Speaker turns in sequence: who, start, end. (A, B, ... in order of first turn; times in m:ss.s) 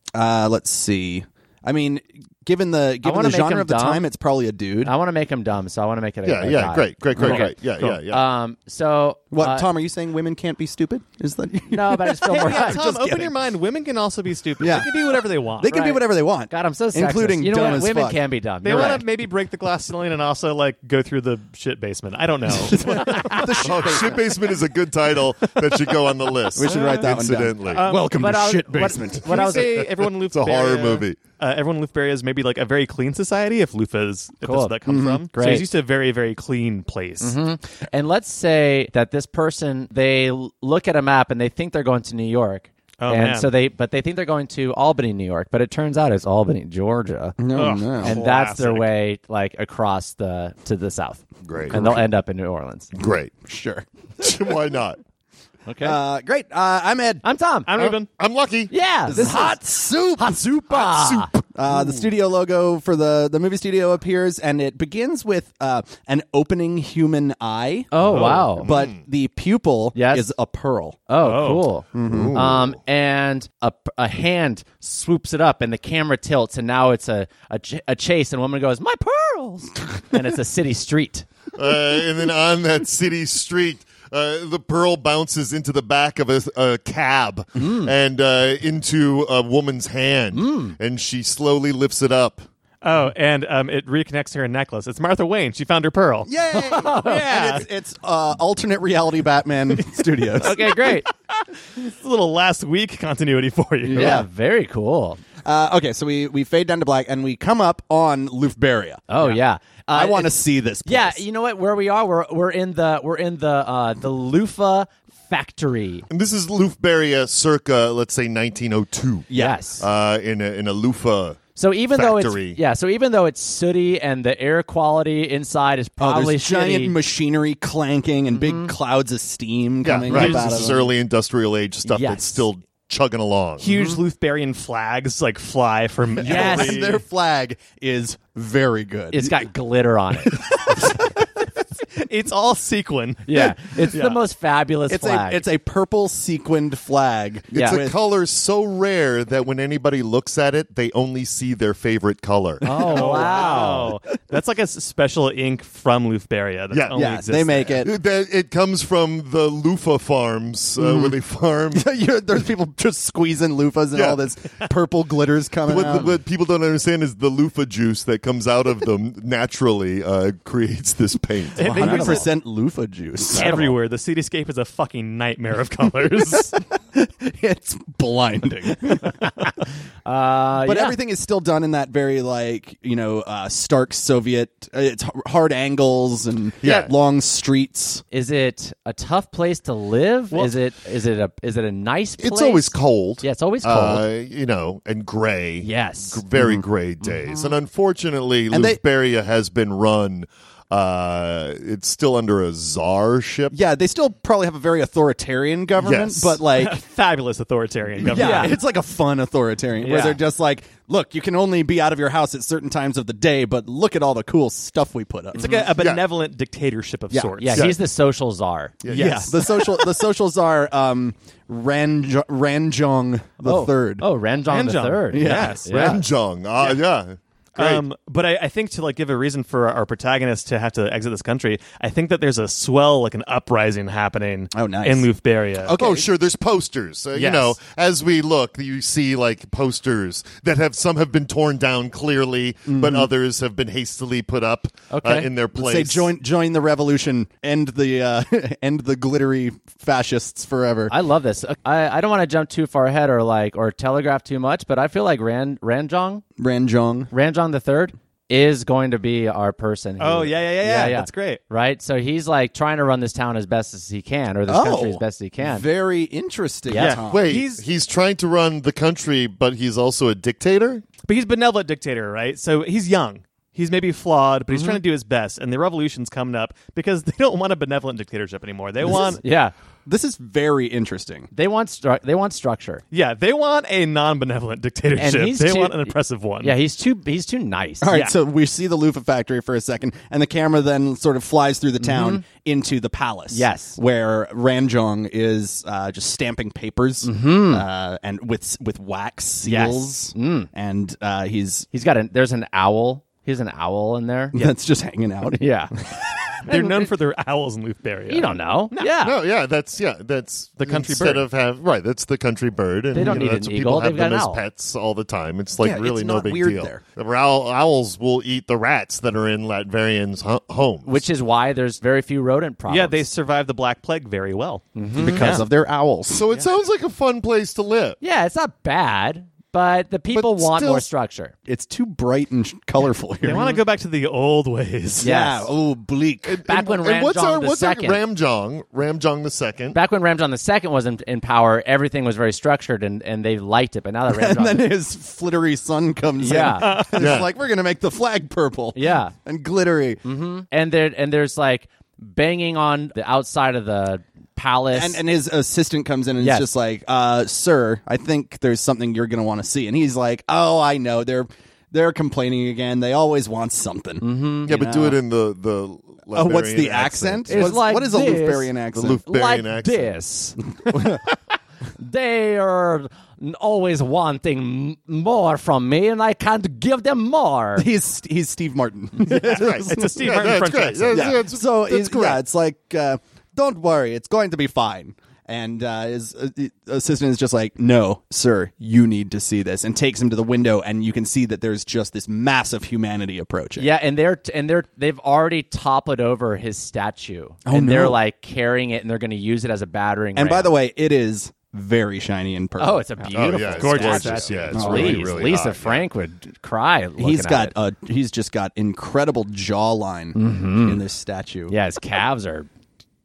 0:00.1-0:04.9 A
0:03.0-0:04.0 B
0:04.8-0:09.7 B
0:06.2-0:08.2 C
0:07.2-0:08.0 D
0:09.3-0:13.3 A
0:11.7-0:12.8 B
0:12.2-0:16.0 D
0:14.6-0:19.0 A
0:15.7-0:19.0 B
0:18.6-0:24.0 D
0:22.5-0:24.2 A
0:23.6-0:27.8 C
0:25.4-0:28.2 D
0:26.5-0:29.4 A
0:28.1-0:29.8 B
0:29.2-0:37.4 D
0:29.3-0:31.2 C
0:34.4-0:34.7 B
0:34.9-0:35.2 A
0:35.3-0:35.6 B
0:37.2-0:47.4 B
0:43.0-0:43.5 D
0:47.4-0:48.2 A
0:47.5-0:48.9 D
0:48.0-0:52.9 B
0:51.4-0:52.0 C
0:51.7-0:52.0 A
0:52.9-0:53.3 C
0:53.4-0:53.8 A
0:54.2-0:55.0 C
0:55.6-0:56.0 B
0:55.8-0:57.2 A
0:57.2-0:57.7 B
0:57.7-0:58.1 D
0:57.8-0:58.7 C
0:58.7-0:59.6 B
0:59.1-1:07.9 A
1:00.2-1:01.3 B
1:01.7-1:02.1 C
1:07.9-1:08.7 B
1:08.0-1:09.0 C
1:08.1-1:08.5 D
1:08.6-1:11.0 A
1:09.9-1:10.3 B
1:11.1-1:21.3 B
1:11.2-1:11.7 D
1:11.9-1:12.4 A
1:12.0-1:12.8 C
1:21.5-1:32.4 C
1:27.6-1:27.9 B
1:30.3-1:30.8 B
1:32.8-1:36.3 D
1:36.2-1:40.8 A
1:36.5-1:37.3 B
1:37.0-1:37.7 D
1:39.8-1:41.0 D
1:40.4-1:41.1 B
1:41.7-1:44.2 D
1:43.9-1:45.2 B
1:43.9-1:44.3 A
1:45.4-1:49.4 A
1:49.1-1:56.0 B
1:49.9-1:51.2 A
1:56.1-2:01.4 C
1:59.3-1:59.6 A
1:59.3-1:59.8 B
2:01.6-2:06.9 B
2:01.9-2:02.6 C
2:06.0-2:10.9 A
2:08.3-2:08.7 B
2:09.8-2:13.7 C
2:10.1-2:10.7 D
2:11.8-2:12.4 B
2:13.6-2:17.0 D
2:13.7-2:14.0 B
2:16.2-2:19.4 A
2:16.2-2:16.8 B
2:19.1-2:20.4 B
2:20.4-2:21.2 A
2:21.9-2:23.3 D
2:23.2-2:25.4 B
2:23.3-2:23.9 A
2:23.9-2:24.2 D
2:24.9-2:27.9 A
2:27.5-2:32.8 C
2:27.5-2:27.8 B
2:32.6-2:33.9 B
2:32.7-2:37.8 D
2:32.8-2:33.9 A
2:36.7-2:37.0 C
2:36.9-2:37.9 A
2:37.8-2:41.8 C
2:40.8-2:41.2 A
2:41.7-2:46.1 A
2:43.9-2:44.2 C
2:45.6-2:52.0 C
2:51.6-2:52.3 D
2:51.6-2:52.3 B
2:51.6-2:53.6 A
2:53.3-2:56.6 D
2:53.3-2:53.7 B
2:56.3-2:59.3 A
2:59.2-2:59.5 B
3:00.0-3:01.0 B
3:00.6-3:08.0 A
3:06.6-3:06.9 C
3:06.6-3:06.9 B
3:08.1-3:14.0 B
3:12.2-3:23.6 C
3:15.6-3:16.2 B
3:16.3-3:16.6 A
3:18.5-3:18.8 A
3:23.5-3:26.8 A
3:25.8-3:26.4 C
3:26.5-3:28.6 D
3:28.0-3:35.6 A
3:28.1-3:28.6 B
3:29.8-3:30.2 B
3:35.3-3:35.7 B
3:35.3-3:37.7 D
3:35.8-3:36.0 C
3:37.4-3:38.8 B
3:37.5-3:37.8 C
3:38.8-3:39.4 C
3:38.9-3:39.8 D
3:38.9-3:44.0 A
3:43.4-3:46.0 B
3:44.5-3:45.9 D
3:45.1-3:45.9 A
3:45.6-3:47.8 C
3:47.5-3:55.7 D
3:54.5-3:55.1 A
3:55.6-3:56.1 A
3:55.7-4:06.1 C
4:02.7-4:03.1 A
4:04.9-4:05.3 B
4:05.5-4:10.9 A
4:10.9-4:16.2 B
4:16.4-4:17.1 A
4:17.1-4:25.6 B
4:20.0-4:21.4 D
4:20.6-4:21.0 A
4:24.5-4:27.3 A
4:26.7-4:27.0 B
4:26.7-4:27.6 D
4:26.9-4:30.8 C
4:31.0-4:39.2 D
4:34.5-4:34.8 B
4:38.8-4:39.2 A
4:38.9-4:39.5 B
4:39.8-4:41.3 A
4:41.3-4:42.8 B
4:42.9-4:46.6 D
4:45.0-4:48.1 B
4:47.8-5:01.7 A
4:51.8-4:52.2 B
4:53.3-4:53.8 B
4:57.0-4:57.6 B
4:59.4-5:00.5 B
5:01.7-5:04.5 B
5:04.3-5:06.7 A
5:05.3-5:05.7 B
5:06.4-5:09.0 D
5:08.1-5:09.2 B
5:09.0-5:21.0 C
5:10.6-5:11.2 D
5:12.9-5:14.4 B
5:13.0-5:13.2 D
5:15.6-5:16.8 A
5:20.8-5:23.0 B
5:22.7-5:25.4 D
5:24.7-5:25.4 B
5:25.0-5:26.3 A
5:26.1-5:28.0 C
5:28.0-5:31.3 B
5:30.1-5:30.8 C
5:31.4-5:33.6 A
5:33.2-5:35.1 D
5:35.0-5:35.5 B
5:35.0-5:36.4 A
5:36.2-5:39.8 C
5:36.4-5:38.0 B
5:39.7-5:44.7 B
5:44.1-5:50.0 A
5:46.2-5:46.7 B
5:46.6-5:47.1 D
5:46.9-5:47.3 C
5:48.7-5:49.1 B
5:50.0-5:55.0 B
5:54.7-6:05.0 A
5:56.2-5:56.5 B
6:04.0-6:04.6 B
6:04.4-6:07.6 C
6:06.1-6:09.0 A
6:07.3-6:11.0 B
6:08.7-6:09.9 C
6:10.7-6:11.0 A
6:11.8-6:17.7 B
6:17.6-6:20.3 A
6:19.0-6:21.2 D
6:19.4-6:22.2 C
6:20.9-6:33.7 A
6:33.6-6:40.5 B
6:37.4-6:38.0 A
6:40.2-6:42.9 A
6:42.6-6:47.5 B
6:43.1-6:45.9 C
6:43.4-6:45.0 D
6:44.5-6:45.1 A
6:47.0-6:51.5 A
6:50.1-6:50.8 B
6:51.5-6:52.5 B